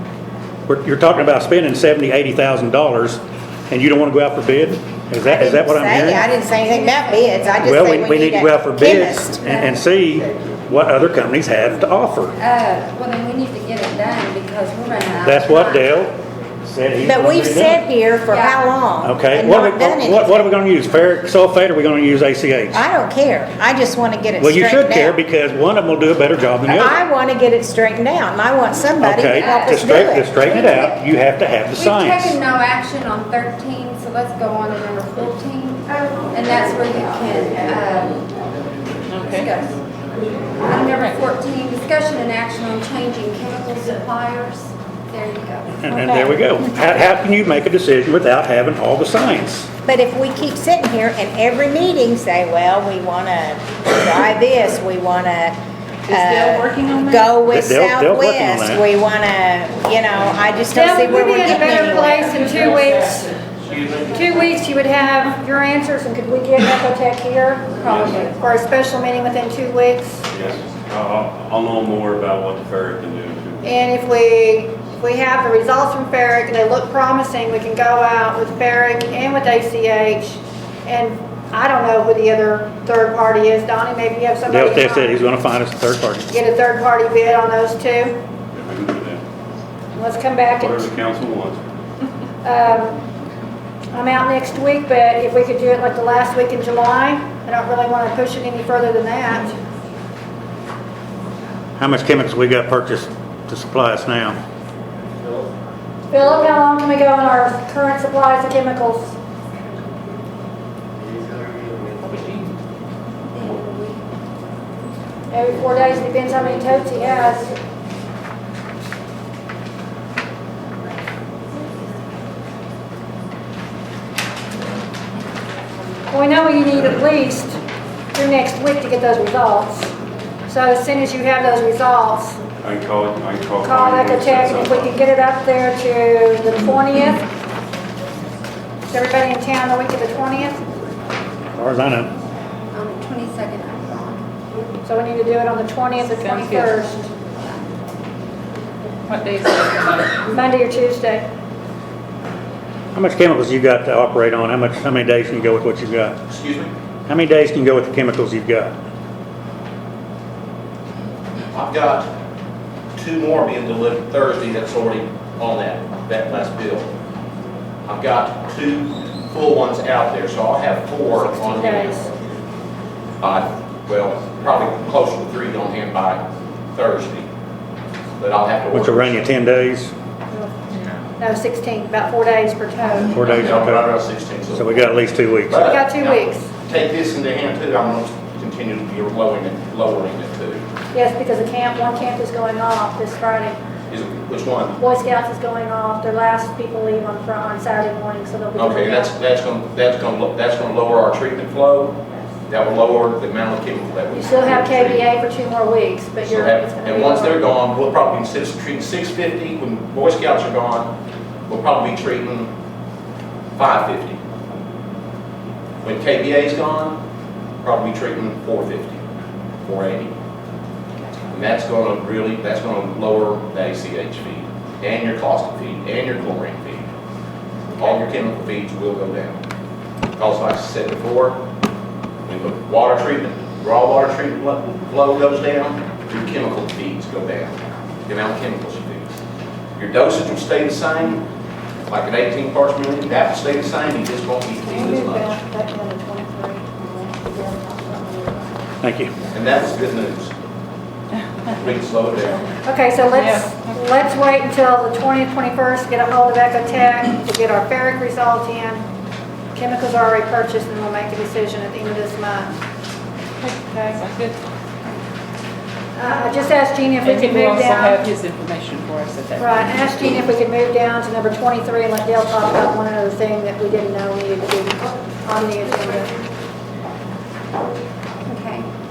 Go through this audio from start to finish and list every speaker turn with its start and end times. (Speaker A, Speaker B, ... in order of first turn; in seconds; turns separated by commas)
Speaker A: 0.7-6.2, Speaker B: 5.2-9.8, Speaker A: 7.6-12.3, Speaker C: 12.4-15.9, Speaker A: 15.2-17.8, Speaker B: 17.0-20.5, Speaker C: 18.3-18.6, Speaker A: 19.0-22.8, Speaker B: 22.7-25.2, Speaker A: 24.4-26.9, Speaker B: 26.7-30.3, Speaker A: 29.0-32.4, Speaker C: 29.3-31.1, Speaker C: 31.7-38.3, Speaker D: 39.1-39.5, Speaker C: 39.2-39.8, Speaker C: 40.6-45.9, Speaker A: 45.8-49.7, Speaker B: 45.9-46.4, Speaker B: 49.9-62.5, Speaker D: 56.1-57.3, Speaker A: 57.5-58.8, Speaker E: 60.7-63.3, Speaker E: 64.1-70.2, Speaker C: 67.8-68.3, Speaker F: 70.3-73.6, Speaker E: 73.6-85.2, Speaker A: 84.5-86.3, Speaker E: 86.3-88.2, Speaker F: 88.5-89.2, Speaker E: 89.9-90.9, Speaker F: 90.5-91.6, Speaker E: 92.4-93.0, Speaker E: 93.9-99.6, Speaker A: 101.8-104.4, Speaker E: 106.1-109.2, Speaker D: 112.0-112.6, Speaker C: 113.3-114.0, Speaker E: 115.3-117.5, Speaker E: 126.1-127.6, Speaker E: 128.1-129.9, Speaker E: 130.5-132.4, Speaker F: 132.6-134.9, Speaker E: 133.6-137.3, Speaker E: 138.9-140.6, Speaker A: 141.6-142.1, Speaker C: 142.7-144.2, Speaker E: 144.8-146.9, Speaker C: 146.0-147.7, Speaker D: 146.2-146.7, Speaker D: 149.1-150.2, Speaker E: 150.2-151.2, Speaker A: 152.9-156.2, Speaker G: 156.3-156.7, Speaker A: 157.1-158.7, Speaker G: 161.5-162.1, Speaker G: 162.9-166.9, Speaker G: 167.9-172.1, Speaker E: 171.3-172.1, Speaker G: 173.2-177.3, Speaker G: 178.2-179.3, Speaker A: 178.7-179.9, Speaker E: 181.2-183.2, Speaker A: 183.1-183.9, Speaker G: 183.2-184.9, Speaker A: 184.5-185.6, Speaker G: 185.5-190.6, Speaker E: 185.6-186.5, Speaker E: 190.9-193.6, Speaker G: 193.9-194.8, Speaker E: 194.8-199.1, Speaker G: 198.6-205.0, Speaker E: 204.1-207.4, Speaker G: 206.2-210.9, Speaker G: 211.5-212.5, Speaker G: 213.6-214.2, Speaker G: 215.8-217.0, Speaker G: 217.6-219.0, Speaker G: 219.6-220.1, Speaker G: 221.3-226.9, Speaker G: 227.8-229.4, Speaker G: 230.1-231.4, Speaker G: 232.2-239.2, Speaker G: 239.8-241.3, Speaker G: 241.8-245.4, Speaker E: 244.6-248.7, Speaker A: 248.8-249.1, Speaker G: 249.3-250.3, Speaker G: 251.6-252.4, Speaker E: 252.6-258.8, Speaker D: 253.1-253.8, Speaker E: 259.5-262.5, Speaker D: 263.4-264.4, Speaker E: 263.5-264.0, Speaker E: 265.9-268.1, Speaker D: 267.0-269.8, Speaker E: 269.3-276.1, Speaker C: 275.6-276.2, Speaker C: 278.2-278.7